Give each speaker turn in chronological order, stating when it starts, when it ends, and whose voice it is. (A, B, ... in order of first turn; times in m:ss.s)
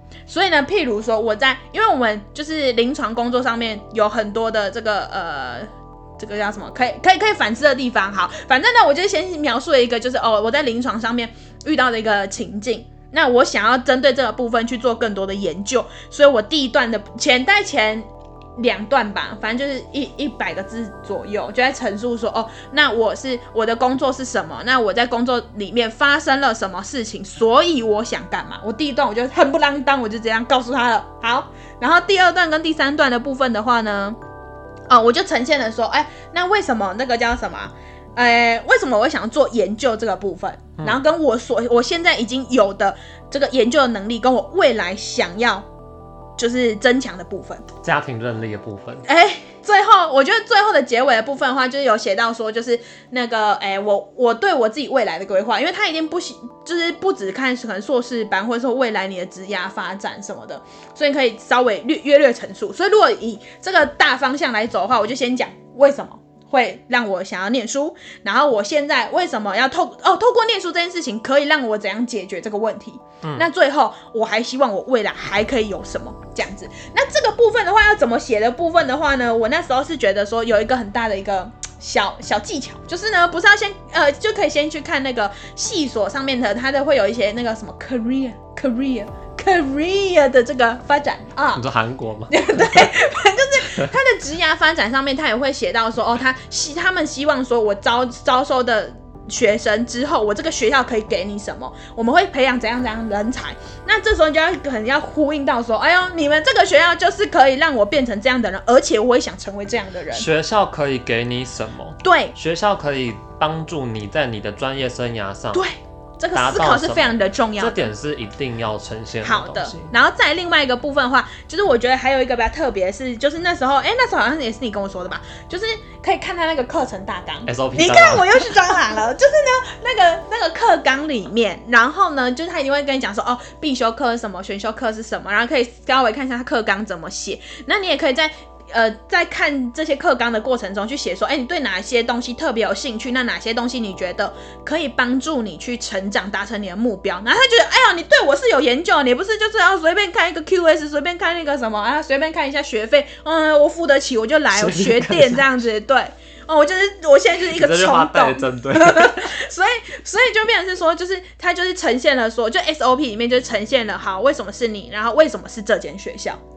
0:00.3-0:34.2 A
0:34.9-0:45.7 A
0:46.4-0:47.7 A
0:47.8-0:49.1 B
0:49.1-1:31.6 A
1:31.5-1:33.0 B
1:32.3-1:50.3 A
1:50.1-1:55.7 B
1:52.0-1:52.4 A
1:55.5-1:57.9 A
1:56.3-1:59.9 B
1:59.2-2:46.4 A
2:07.5-2:08.7 B
2:34.5-2:35.5 B
2:37.4-2:39.4 B